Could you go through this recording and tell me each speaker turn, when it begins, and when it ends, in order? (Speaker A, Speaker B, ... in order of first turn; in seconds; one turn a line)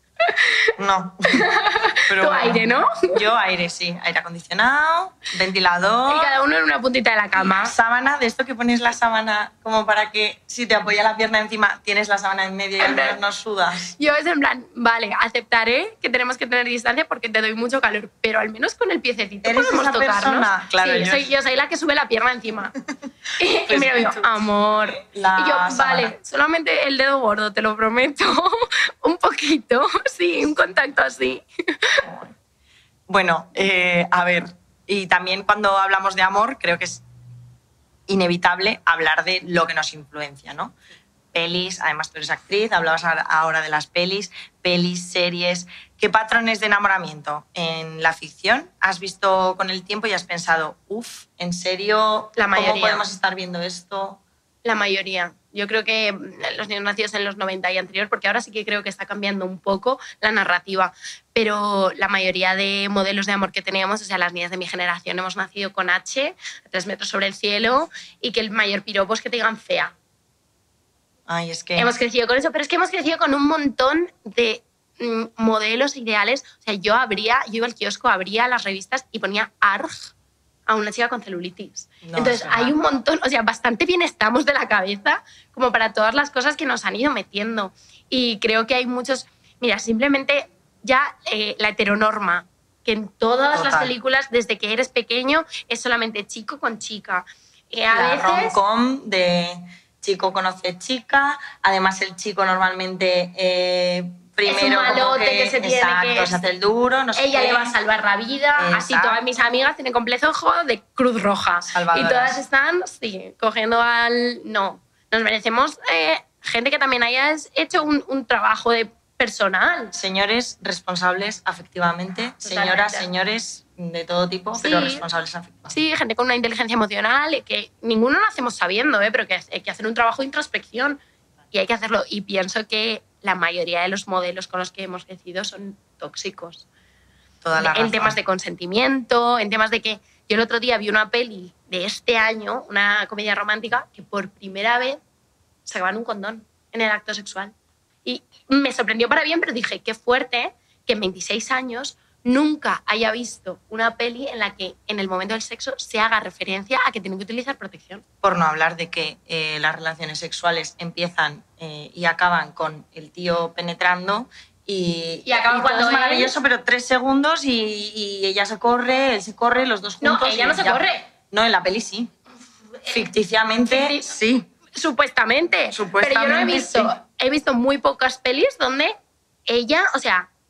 Speaker A: 0.8-1.4
Speaker B: 1.3-3.1
Speaker A: 2.1-6.3
Speaker B: 6.1-7.7
Speaker A: 7.4-14.0
Speaker B: 12.8-13.2
Speaker B: 14.0-22.7
Speaker A: 19.4-21.3
Speaker B: 23.4-32.0
Speaker A: 23.7-24.3
Speaker A: 25.0-26.1
Speaker A: 32.0-32.3
Speaker A: 33.1-37.0
Speaker A: 38.1-40.7
Speaker A: 41.3-54.2
Speaker B: 52.4-53.0
Speaker B: 54.6-69.9
Speaker A: 71.3-71.9
Speaker B: 71.8-80.1
Speaker B: 80.7-98.6
Speaker A: 82.0-82.7
Speaker A: 93.5-93.9
Speaker A: 97.9-107.7
Speaker B: 104.5-106.4
Speaker B: 107.2-119.9
Speaker A: 108.6-109.2
Speaker A: 111.7-112.4
Speaker A: 119.9-125.8
Speaker B: 122.4-123.1
Speaker B: 124.6-125.0
Speaker B: 125.7-131.0
Speaker B: 131.5-136.7
Speaker A: 137.4-138.2
Speaker B: 137.6-145.0
Speaker B: 145.7-147.5
Speaker B: 148.1-158.0
Speaker A: 158.2-172.1
Speaker B: 165.3-166.3
Speaker B: 170.0-171.1
Speaker A: 172.9-174.5
Speaker B: 173.7-174.1
Speaker B: 174.7-179.0
Speaker A: 175.7-176.9
Speaker B: 179.5-180.3